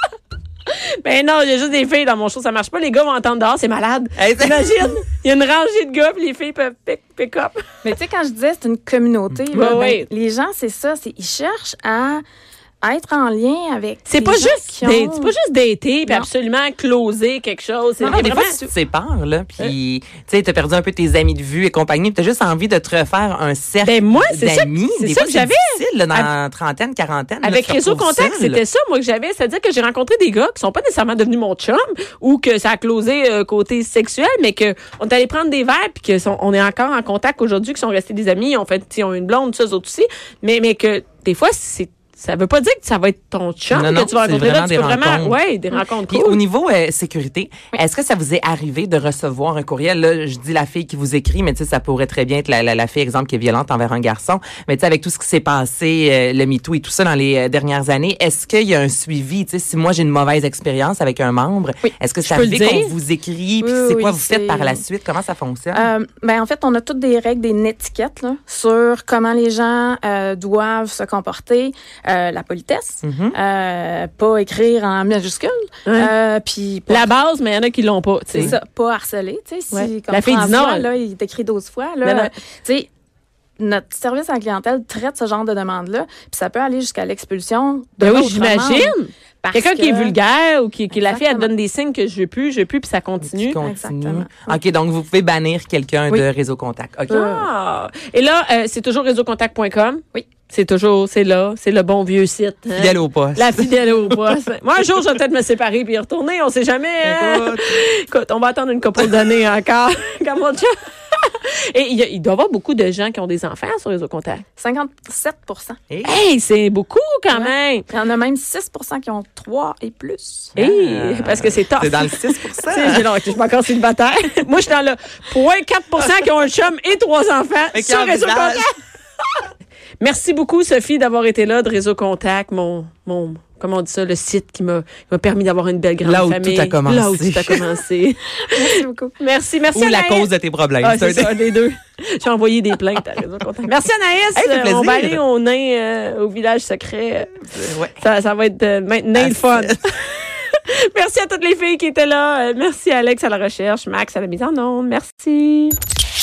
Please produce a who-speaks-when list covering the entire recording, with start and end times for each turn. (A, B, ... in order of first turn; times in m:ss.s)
0:00.7-0:07.6 A
0:04.2-0:05.0 B
0:07.8-0:12.2 C
0:09.5-0:10.1 A
0:12.8-0:15.4 C
0:14.1-0:18.6 A
0:18.0-0:18.7 C
0:18.1-0:28.6 B
0:23.8-0:26.3 A
0:27.4-0:46.4 A
0:43.7-0:45.4 B
0:46.1-1:05.9 B
1:02.2-1:02.9 A
1:03.6-1:04.8 C
1:05.7-1:17.1 C
1:13.0-1:13.4 B
1:15.9-1:16.1 A
1:16.9-1:18.6 A
1:18.3-1:22.9 C
1:19.7-1:20.9 A
1:22.0-1:22.3 A
1:23.6-1:30.2 C
1:28.0-1:33.6 A
1:30.9-1:31.5 C
1:33.2-1:37.5 B
1:33.6-1:34.6 C
1:37.1-1:54.4 A
1:42.7-1:44.1 B
1:47.0-1:47.8 B
1:54.6-1:55.8 C
1:55.9-1:56.2 B
1:56.0-1:57.9 A
1:57.3-2:00.6 C
2:00.6-2:03.1 B
2:00.6-2:08.8 A
2:07.7-2:08.7 B
2:10.0-2:20.3 A
2:16.0-2:17.6 B
2:18.5-2:19.2 C
2:19.7-2:21.4 B
2:20.8-2:27.4 A
2:24.4-2:25.2 B
2:27.5-2:28.0 B
2:28.0-2:35.8 A
2:29.2-2:29.8 B